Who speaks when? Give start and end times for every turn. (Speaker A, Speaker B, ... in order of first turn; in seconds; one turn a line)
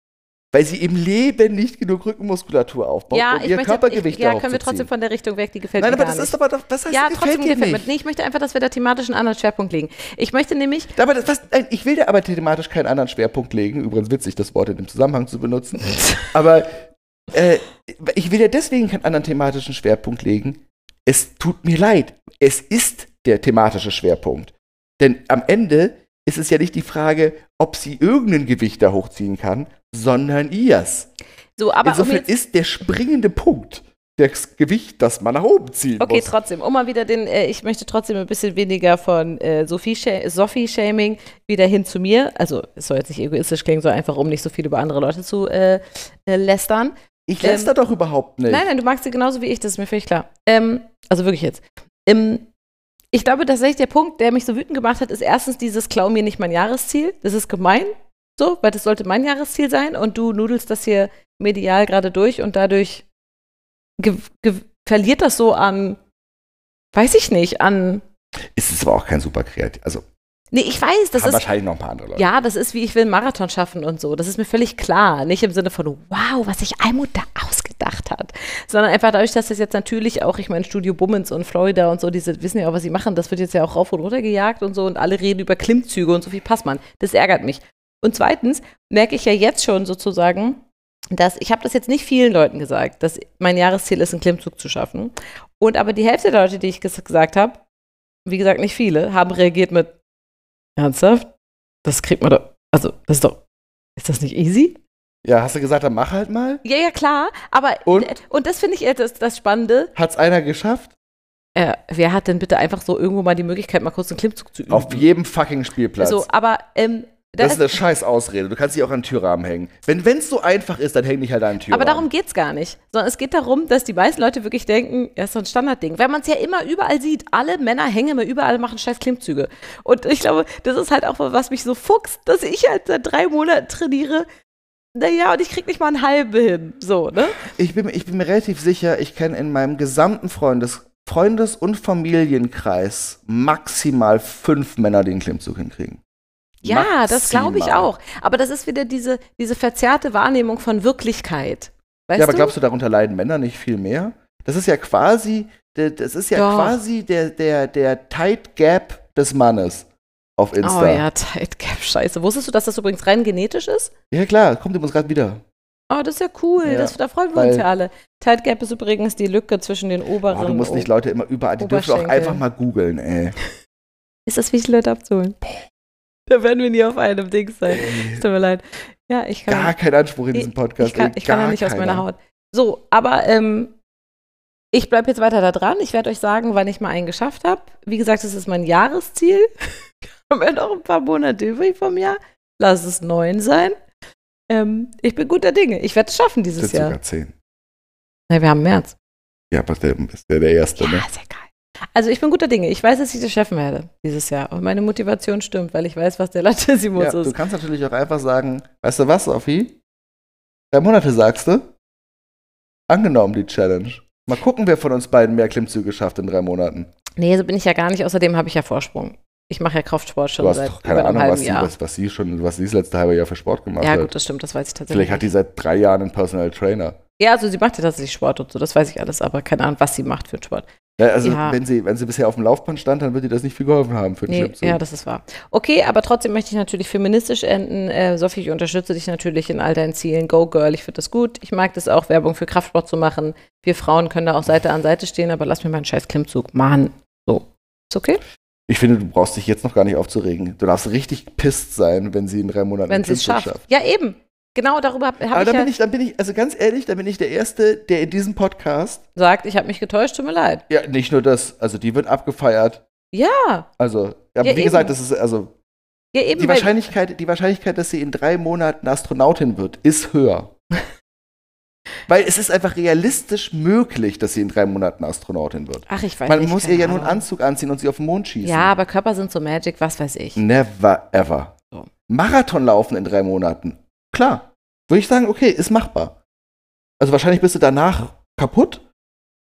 Speaker A: 0.5-4.9
Speaker B: 3.1-6.3
Speaker A: 5.8-7.9
Speaker B: 6.9-10.9
Speaker A: 10.9-31.1
Speaker B: 31.6-32.3
Speaker A: 31.8-36.3
Speaker B: 36.0-47.7
Speaker A: 47.3-48.7
Speaker B: 48.5-52.5
Speaker B: 53.1-63.0
Speaker B: 64.0-66.0
Speaker B: 66.9-68.0
Speaker A: 68.5-70.0
Speaker B: 70.5-71.4
Speaker A: 71.1-72.3
Speaker B: 72.2-97.6
Speaker B: 98.2-99.9
Speaker B: 100.8-101.3
Speaker B: 101.8-103.4
Speaker B: 104.0-104.8
Speaker A: 105.2-106.6
Speaker B: 106.6-109.9
Speaker A: 107.8-108.1
Speaker A: 109.9-110.9
Speaker B: 111.5-115.1
Speaker A: 114.7-116.3
Speaker B: 116.0-117.8
Speaker A: 117.4-122.1
Speaker B: 121.7-134.3
Speaker B: 134.9-137.5
Speaker A: 137.5-146.0
Speaker A: 146.6-147.9
Speaker B: 146.6-152.5
Speaker A: 152.2-161.0
Speaker B: 156.3-156.8
Speaker B: 160.6-163.9
Speaker A: 164.1-165.4
Speaker B: 165.9-170.9
Speaker A: 166.6-167.7
Speaker A: 170.3-173.3
Speaker B: 171.6-172.4
Speaker B: 174.3-175.4
Speaker B: 176.3-179.7
Speaker A: 177.7-178.2
Speaker A: 179.5-182.1
Speaker B: 180.3-183.7
Speaker B: 184.7-189.5
Speaker B: 190.3-193.8
Speaker B: 194.5-197.0
Speaker A: 196.6-197.3
Speaker B: 198.3-198.9
Speaker A: 199.5-201.1
Speaker B: 200.8-207.4
Speaker A: 206.9-209.8
Speaker A: 210.7-211.7
Speaker A: 212.9-216.9
Speaker B: 217.2-221.7
Speaker A: 220.4-224.1
Speaker B: 223.8-225.3
Speaker A: 224.9-227.0
Speaker B: 227.2-230.7
Speaker A: 231.0-234.8
Speaker B: 231.2-231.6
Speaker B: 234.3-248.2
Speaker A: 248.7-253.6
Speaker B: 252.9-255.7
Speaker A: 255.3-259.0
Speaker B: 259.1-260.6
Speaker A: 260.7-262.8
Speaker B: 263.1-263.7
Speaker A: 263.8-265.5
Speaker B: 264.4-264.9
Speaker B: 266.1-266.7
Speaker A: 266.4-270.5
Speaker A: 272.1-278.7
Speaker B: 275.9-277.2
Speaker B: 278.4-280.4
Speaker A: 280.4-281.5
Speaker A: 282.1-286.1
Speaker A: 287.0-288.8